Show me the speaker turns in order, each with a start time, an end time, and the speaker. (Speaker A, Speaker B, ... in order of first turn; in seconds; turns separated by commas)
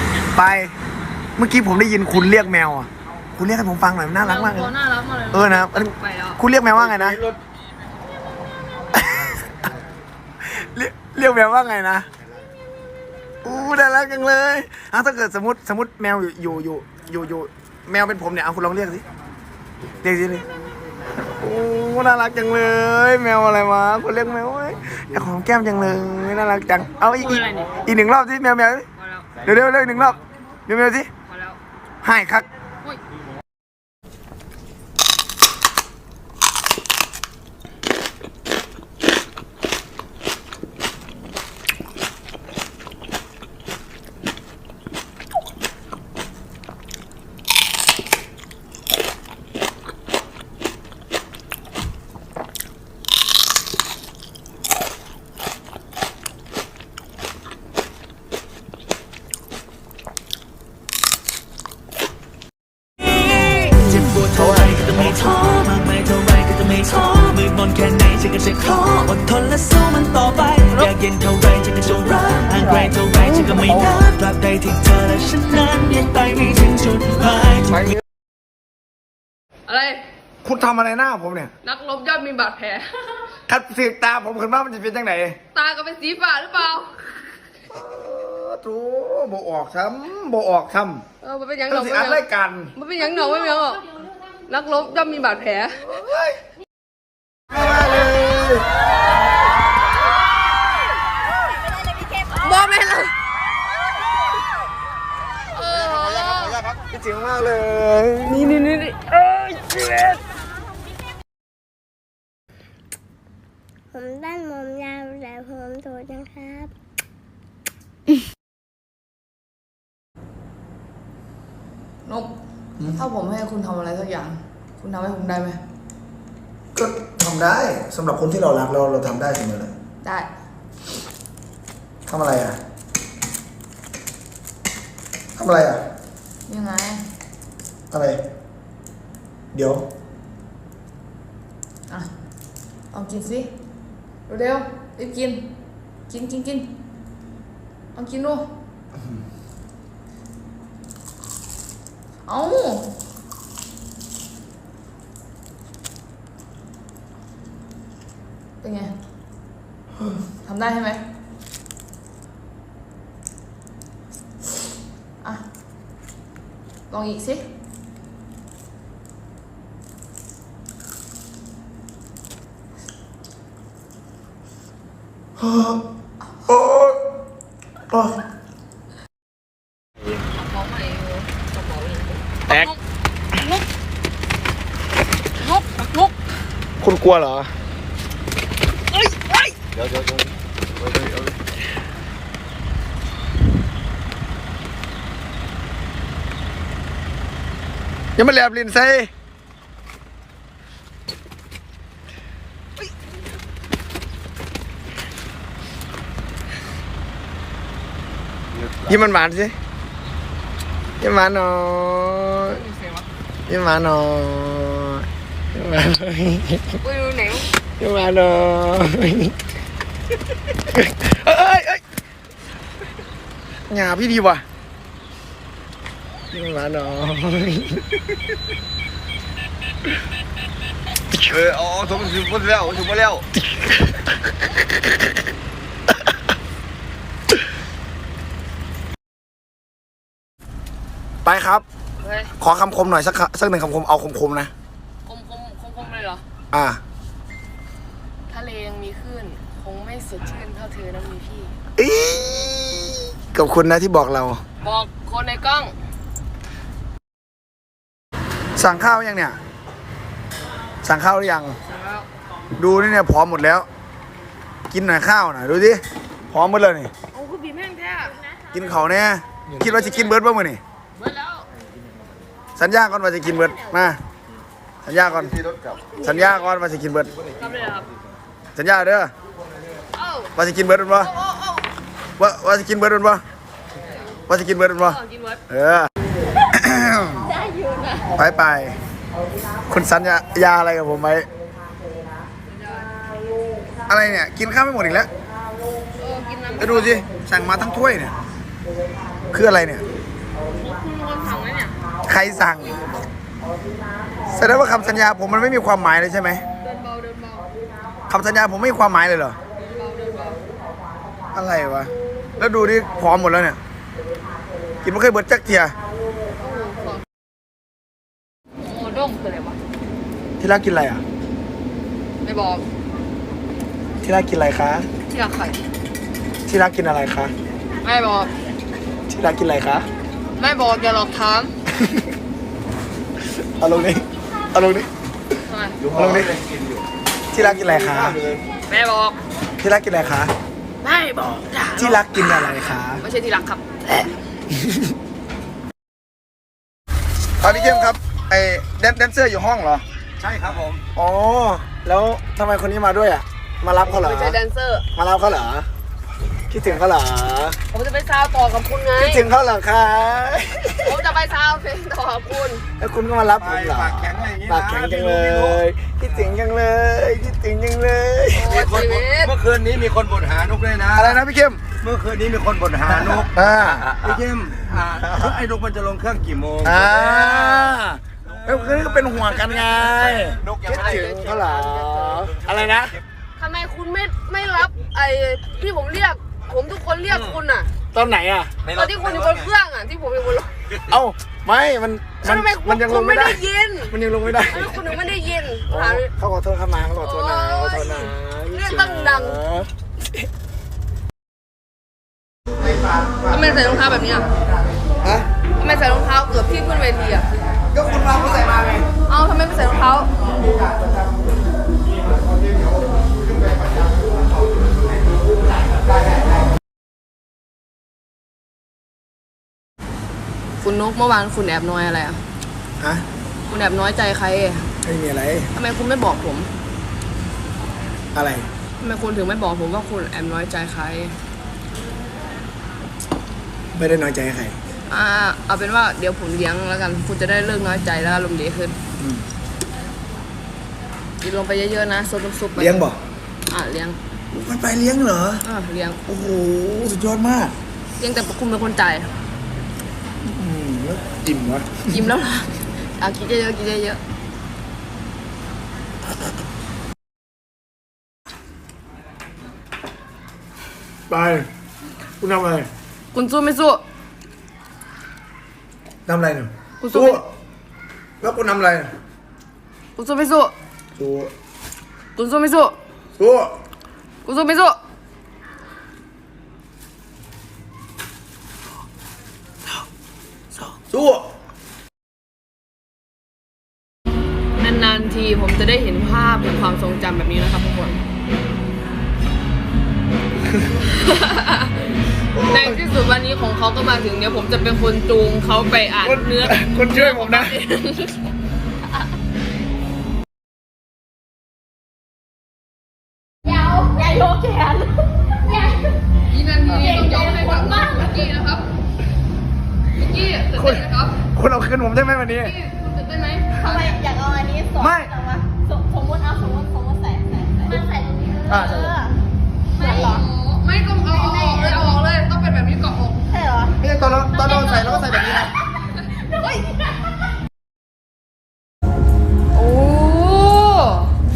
Speaker A: 0.3-0.7, Speaker A: 1.4-4.7, Speaker B: 4.2-6.4, Speaker A: 5.3-7.2, Speaker C: 6.8-7.4, Speaker A: 8.9-9.5, Speaker A: 10.4-12.1, Speaker A: 13.4-19.0, Speaker A: 20.0-20.5, Speaker A: 21.2-28.9, Speaker B: 27.2-27.8, Speaker B: 28.9-29.3, Speaker A: 29.4-31.1, Speaker B: 31.2-31.6, Speaker A: 32.0-32.5, Speaker D: 63.2-77.8, Speaker A: 64.3-65.1, Speaker A: 72.5-74.0, Speaker A: 77.7-78.0, Speaker B: 79.7-80.0, Speaker A: 80.4-81.5, Speaker B: 81.6-83.2, Speaker A: 83.5-85.4, Speaker B: 85.5-87.1, Speaker A: 87.7-91.0, Speaker B: 91.2-93.9, Speaker A: 91.7-92.7, Speaker B: 94.5-95.9, Speaker A: 95.9-96.3, Speaker A: 97.5-98.6, Speaker B: 102.2-103.1, Speaker B: 105.5-106.6, Speaker A: 106.8-108.5, Speaker B: 108.2-109.2, Speaker A: 109.2-110.2, Speaker E: 114.0-116.7, Speaker B: 122.0-122.3, Speaker B: 122.9-125.6, Speaker A: 126.7-129.7, Speaker B: 130.0-130.3, Speaker A: 132.1-132.6, Speaker A: 135.3-135.8, Speaker B: 136.5-137.1, Speaker A: 137.9-138.2, Speaker A: 139.5-139.8, Speaker B: 142.9-143.5, Speaker B: 144.3-145.5, Speaker B: 146.1-146.7, Speaker B: 147.9-148.5, Speaker B: 152.2-152.9, Speaker B: 158.6-158.9, Speaker B: 160.4-161.0, Speaker B: 166.9-167.4, Speaker A: 175.4-175.8, Speaker A: 176.4-177.0, Speaker A: 177.9-178.2, Speaker B: 180.1-182.8, Speaker A: 182.5-182.7, Speaker B: 185.4-186.1, Speaker A: 186.8-187.5, Speaker B: 188.9-189.5, Speaker C: 189.8-190.3, Speaker C: 190.9-191.2, Speaker A: 198.2-199.1, Speaker A: 208.8-209.5, Speaker A: 211.0-212.6, Speaker B: 212.5-213.1, Speaker A: 213.5-216.8, Speaker B: 216.8-217.5, Speaker A: 217.8-219.3, Speaker A: 220.7-221.8, Speaker A: 223.7-224.4, Speaker A: 226.3-228.0, Speaker C: 231.2-233.2, Speaker A: 241.2-241.6, Speaker B: 242.0-242.3, Speaker A: 242.4-244.5, Speaker B: 245.1-246.2, Speaker A: 246.5-246.8, Speaker B: 248.3-251.5, Speaker A: 251.8-254.4, Speaker B: 254.6-255.7, Speaker A: 258.6-259.4, Speaker A: 260.8-261.6, Speaker B: 261.7-262.1, Speaker A: 262.6-263.6, Speaker A: 264.7-266.9, Speaker B: 267.1-268.2, Speaker A: 268.5-270.6, Speaker B: 269.8-270.1, Speaker B: 271.0-271.5, Speaker A: 272.6-274.0, Speaker A: 274.8-275.4, Speaker C: 275.2-275.9, Speaker A: 276.0-277.1, Speaker B: 277.4-277.9, Speaker A: 278.5-279.1, Speaker B: 279.9-280.3, Speaker A: 280.4-281.1, Speaker B: 280.9-281.6, Speaker A: 282.2-283.2, Speaker B: 283.9-284.2, Speaker A: 284.3-285.9, Speaker B: 284.7-285.4, Speaker A: 286.5-287.3, Speaker B: 287.4-288.0, Speaker A: 288.1-288.8, Speaker A: 289.7-291.3, Speaker B: 292.4-292.9, Speaker A: 293.9-295.1, Speaker B: 296.0-297.0, Speaker A: 296.6-298.2, Speaker A: 299.3-299.8, Speaker B: 300.6-301.7, Speaker A: 302.1-302.8, Speaker A: 304.3-306.4, Speaker B: 306.6-307.5, Speaker A: 308.1-309.4, Speaker B: 309.6-310.4, Speaker A: 311.3-313.6, Speaker A: 314.8-315.8, Speaker B: 316.4-317.0, Speaker B: 318.6-319.6, Speaker A: 320.4-321.0, Speaker B: 322.2-322.6, Speaker A: 324.0-324.9, Speaker B: 325.1-325.6, Speaker A: 326.4-327.3, Speaker B: 327.8-328.3, Speaker A: 329.1-329.9, Speaker B: 330.4-331.5, Speaker A: 331.7-332.1, Speaker A: 333.4-334.9, Speaker B: 335.4-335.8, Speaker C: 335.8-336.8, Speaker A: 335.9-336.4, Speaker A: 337.3-338.2, Speaker C: 337.4-338.4, Speaker B: 338.7-339.2, Speaker A: 339.6-340.3, Speaker B: 340.8-344.0, Speaker A: 341.7-343.0, Speaker A: 344.5-344.9, Speaker B: 347.4-348.0, Speaker A: 347.4-349.8, Speaker C: 350.2-350.8, Speaker A: 350.9-354.4, Speaker B: 353.8-354.9, Speaker A: 354.9-355.7, Speaker A: 356.5-357.6, Speaker B: 357.7-359.3, Speaker A: 358.9-360.9, Speaker B: 360.8-362.6, Speaker A: 362.8-368.5, Speaker C: 363.4-365.6, Speaker B: 368.3-369.3, Speaker C: 368.5-377.8, Speaker A: 370.9-371.6, Speaker A: 373.1-373.9, Speaker A: 376.6-383.0, Speaker C: 378.4-381.5, Speaker B: 383.4-387.7, Speaker A: 387.9-388.5, Speaker C: 388.6-389.5, Speaker B: 388.6-390.5, Speaker A: 390.9-395.0, Speaker B: 392.2-393.9, Speaker B: 394.5-396.1, Speaker A: 395.6-399.7, Speaker B: 397.0-399.4, Speaker B: 403.2-404.3, Speaker A: 405.0-405.3, Speaker B: 405.6-407.3, Speaker A: 407.7-408.9, Speaker B: 409.1-410.1, Speaker B: 420.6-422.2, Speaker A: 422.8-423.0, Speaker B: 423.5-424.7, Speaker A: 424.8-425.5, Speaker B: 425.5-426.5, Speaker A: 428.1-428.5, Speaker B: 428.8-431.1, Speaker A: 433.7-434.6, Speaker B: 434.9-438.8, Speaker A: 439.0-439.2, Speaker B: 441.2-442.9, Speaker A: 442.6-443.0, Speaker B: 443.5-444.0, Speaker A: 444.3-445.4, Speaker B: 445.4-446.0, Speaker A: 446.1-447.5, Speaker B: 448.0-449.1, Speaker A: 450.2-452.0, Speaker B: 451.9-454.0, Speaker A: 461.1-461.5, Speaker A: 462.2-462.7, Speaker B: 463.1-463.8, Speaker A: 466.1-467.2, Speaker B: 466.8-467.2, Speaker A: 468.2-468.9, Speaker B: 469.9-470.5, Speaker A: 471.0-471.3, Speaker B: 472.1-472.8, Speaker A: 473.2-473.5, Speaker B: 474.2-474.8, Speaker A: 480.6-481.3, Speaker B: 484.6-488.0, Speaker B: 490.8-498.2, Speaker A: 492.3-492.8, Speaker A: 496.0-497.6, Speaker E: 503.5-505.8, Speaker B: 506.2-508.7, Speaker E: 506.9-508.1, Speaker B: 509.9-511.2, Speaker A: 510.5-512.5, Speaker B: 512.3-514.0, Speaker E: 513.6-519.1, Speaker A: 514.8-515.1, Speaker A: 518.5-519.0, Speaker B: 519.7-523.3, Speaker E: 519.8-520.2, Speaker E: 521.3-521.7, Speaker E: 523.3-523.8, Speaker A: 523.8-525.5, Speaker B: 524.4-525.4, Speaker B: 526.1-526.6, Speaker B: 529.5-531.1